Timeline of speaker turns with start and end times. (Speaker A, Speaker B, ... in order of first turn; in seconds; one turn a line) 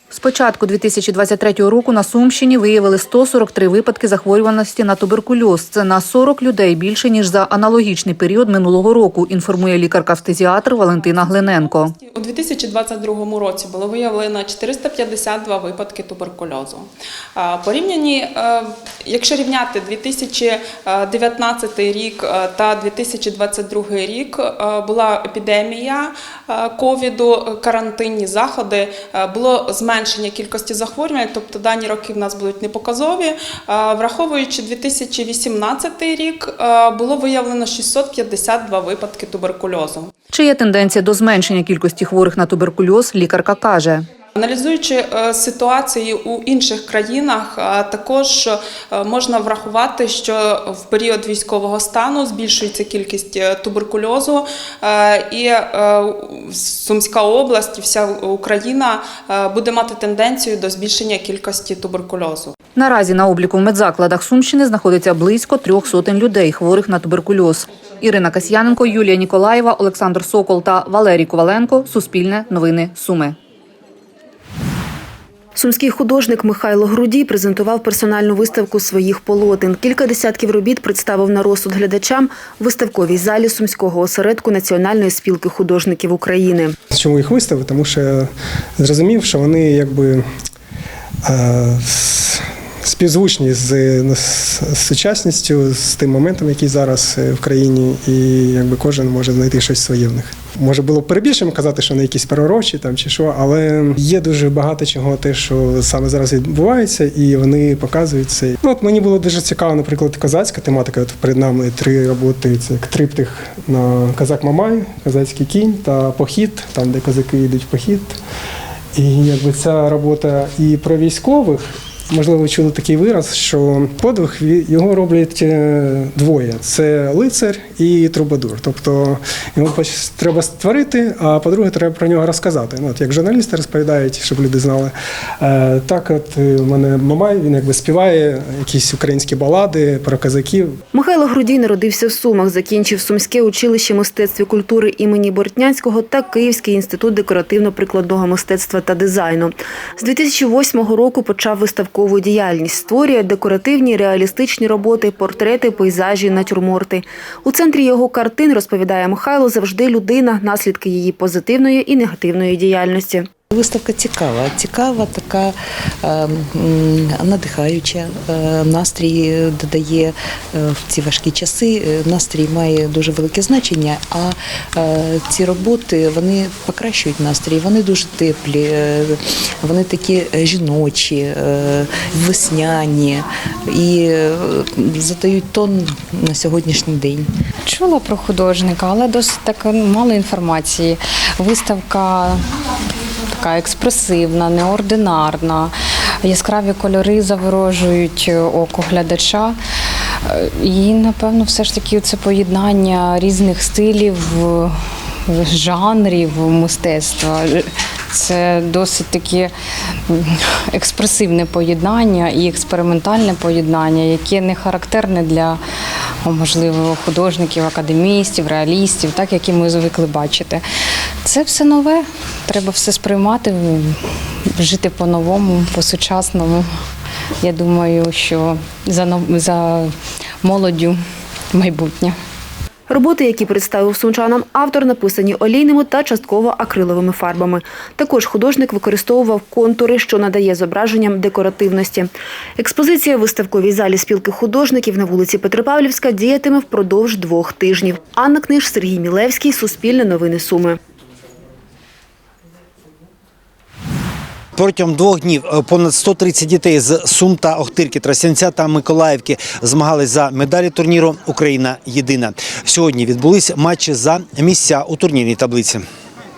Speaker A: 0.1-11.9
Speaker B: 11.2-40.1
Speaker A: 40.3-44.1
Speaker B: 44.4-62.5
Speaker A: 62.8-73.3
Speaker C: 75.6-86.8
Speaker D: 86.9-90.3
Speaker D: 91.2-118.2
Speaker D: 119.0-140.7
Speaker C: 140.9-163.3
Speaker E: 163.6-187.3
Speaker F: 187.6-192.5
Speaker F: 193.3-199.6
Speaker F: 200.2-209.5
Speaker F: 210.1-215.6
Speaker F: 216.2-220.7
Speaker F: 221.2-226.8
Speaker F: 227.4-232.2
Speaker C: 232.9-250.8
Speaker G: 254.6-265.8